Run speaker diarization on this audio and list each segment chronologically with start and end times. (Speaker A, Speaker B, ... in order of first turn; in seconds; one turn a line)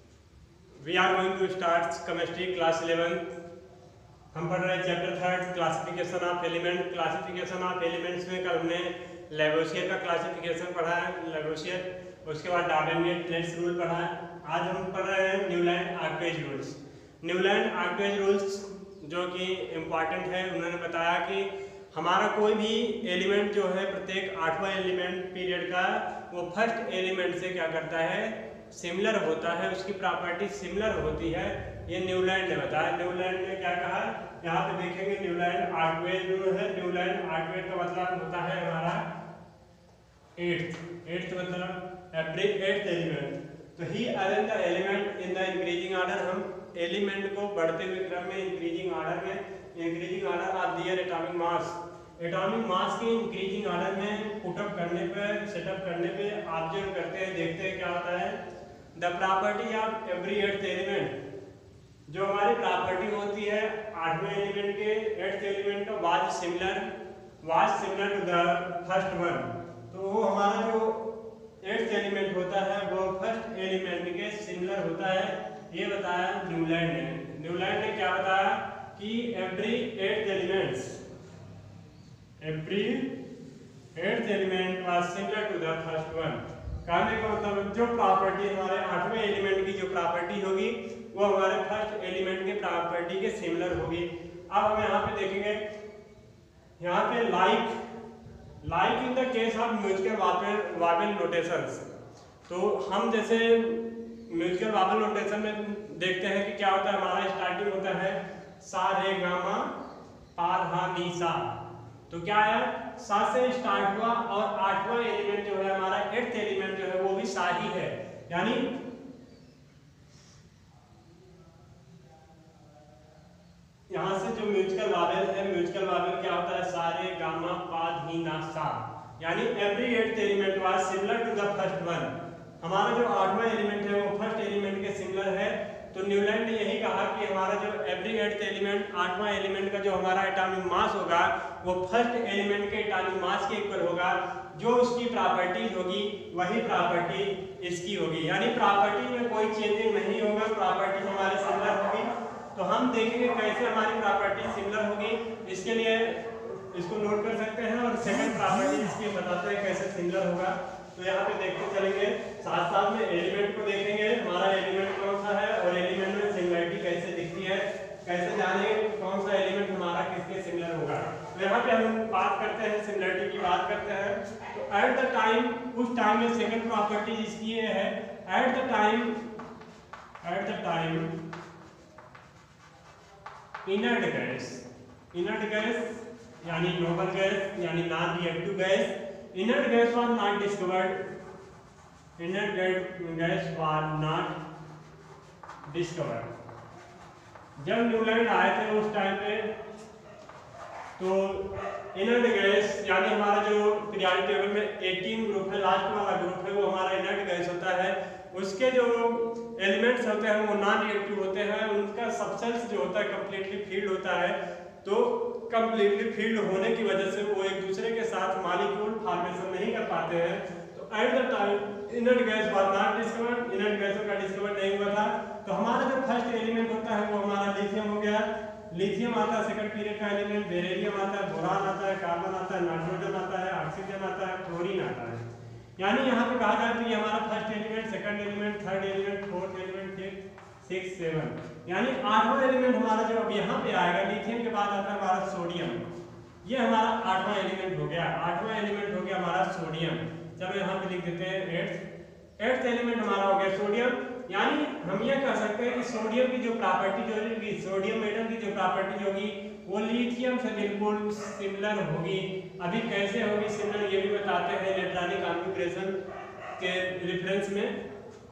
Speaker A: 0.8-3.2
Speaker A: 4.3-39.0
Speaker A: 40.4-58.4
Speaker A: 59.0-61.1
Speaker A: 62.1-81.0
Speaker A: 82.4-83.1
Speaker A: 83.9-95.6
Speaker A: 96.8-97.7
Speaker A: 98.6-101.9
Speaker A: 102.5-109.7
Speaker A: 110.3-111.5
Speaker A: 112.1-118.8
Speaker A: 123.9-179.2
Speaker A: 180.2-181.1
Speaker A: 183.6-191.1
Speaker A: 192.2-194.4
Speaker A: 195.6-196.3
Speaker A: 197.6-199.5
Speaker A: 201.0-235.2
Speaker A: 235.8-245.8
Speaker A: 246.4-251.8
Speaker A: 252.4-265.9
Speaker A: 266.6-267.8